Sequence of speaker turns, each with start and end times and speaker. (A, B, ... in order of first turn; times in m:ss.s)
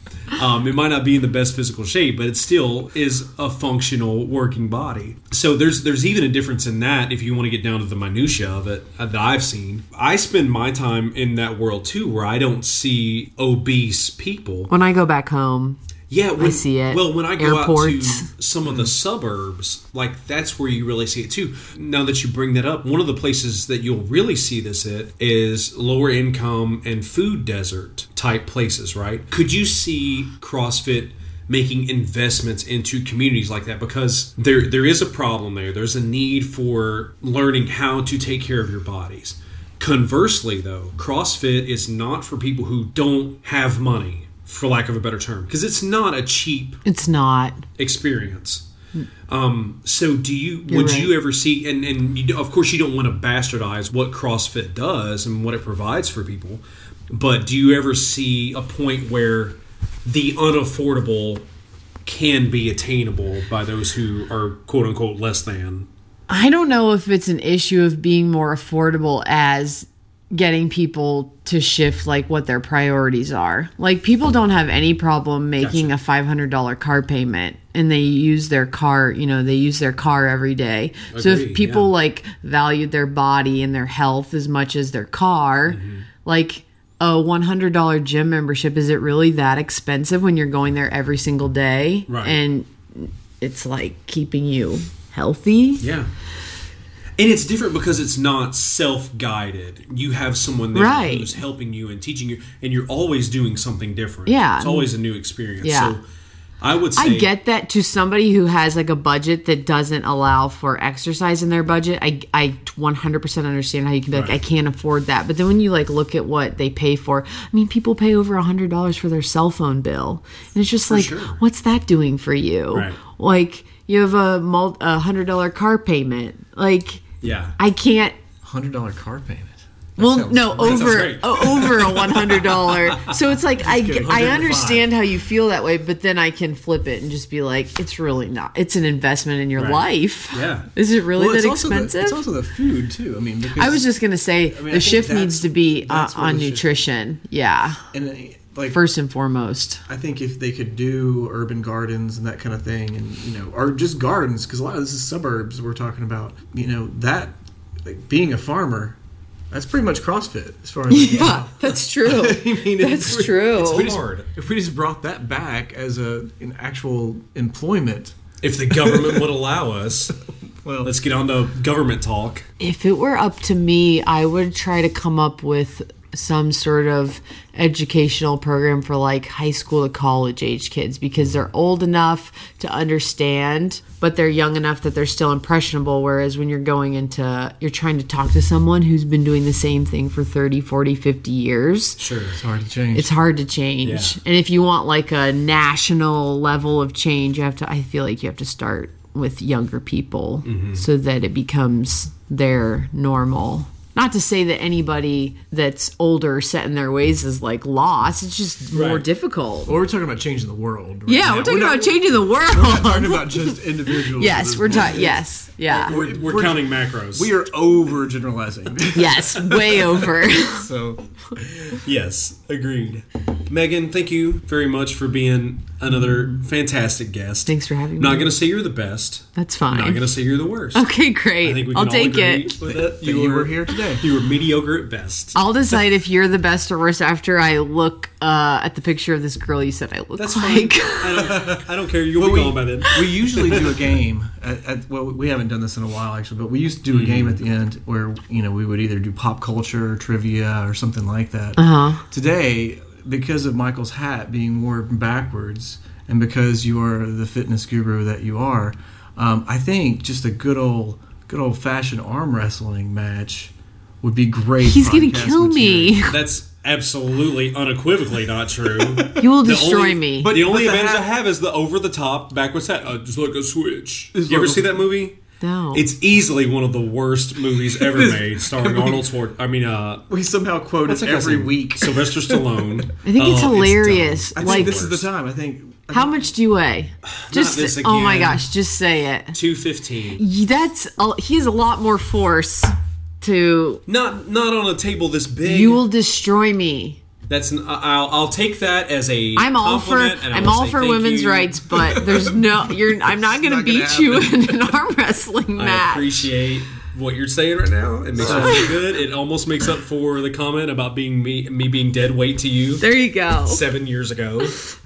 0:00.3-0:14.7 A
0:14.7-0:15.8 B
0:16.1-0:46.8 A
0:16.4-0:18.3 B
0:46.8-0:47.6 B
0:47.8-0:48.7 A
0:49.3-1:01.4 A
0:50.7-0:51.1 B
1:02.0-1:05.9 A
1:06.3-1:35.8 B
1:15.6-1:15.9 A
1:21.1-1:21.9 A
1:25.7-1:26.1 A
1:32.1-1:32.4 A
1:35.8-1:36.1 A
1:37.2-1:46.0 A
1:40.7-1:41.4 B
1:44.3-1:44.9 B
1:45.6-1:46.0 B
1:46.6-1:47.3 A
1:47.0-2:07.1 B
1:54.1-1:54.4 A
2:00.9-2:01.4 A
2:02.7-2:03.0 A
2:07.2-2:07.6 A
2:07.6-2:08.2 B
2:08.4-2:11.2 C
2:10.0-2:22.2 B
2:10.6-2:13.2 A
2:13.6-2:14.2 C
2:13.9-2:14.9 A
2:19.6-2:20.7 A
2:21.2-2:23.8 C
2:23.6-2:27.8 B
2:24.5-2:26.7 C
2:27.9-2:28.8 C
2:28.7-2:29.8 B
2:29.9-2:39.0 C
2:39.5-2:43.8 C
2:40.9-2:44.0 B
2:43.1-2:44.3 A
2:44.3-2:48.2 C
2:48.4-2:50.2 A
2:48.8-2:49.2 C
2:50.6-2:50.9 C
2:50.8-2:52.5 A
2:52.6-3:12.0 B
3:12.0-3:12.4 A
3:12.4-3:13.2 C
3:13.0-3:29.7 B
3:13.8-3:14.2 A
3:20.4-3:20.8 A
3:28.7-3:29.0 A
3:29.7-3:41.8 C
3:31.1-3:36.0 B
3:35.8-3:37.3 A
3:38.9-3:40.7 B
3:41.8-3:50.9 A
3:47.5-3:48.3 B
3:49.4-3:50.1 B
3:50.7-3:52.6 B
3:51.4-3:55.4 A
3:52.6-3:54.0 C
3:55.4-4:01.4 B
4:00.2-4:03.8 A
4:01.2-4:26.0 C
4:06.9-4:07.4 A
4:11.6-4:12.0 B
4:24.6-4:26.2 B
4:26.1-4:35.2 A
4:29.1-4:30.3 B
4:30.2-4:31.1 C
4:34.1-4:34.9 C
4:35.4-4:35.8 B
4:35.7-4:40.0 A
4:37.7-4:39.0 C
4:40.1-4:42.7 C
4:40.8-4:45.1 A
4:43.0-4:44.9 B
4:44.4-4:46.3 C
4:45.9-4:49.4 B
4:47.0-4:48.5 A
4:49.3-4:50.2 A
4:50.2-4:53.8 B
4:53.9-4:55.8 A
4:55.4-4:57.0 B
4:57.3-5:01.7 A
4:59.4-5:06.3 B
5:01.9-5:02.3 C
5:02.9-5:04.5 C
5:05.6-5:12.9 A
5:08.2-5:08.7 C
5:08.2-5:08.8 B
5:12.8-5:13.6 B
5:13.4-5:14.6 A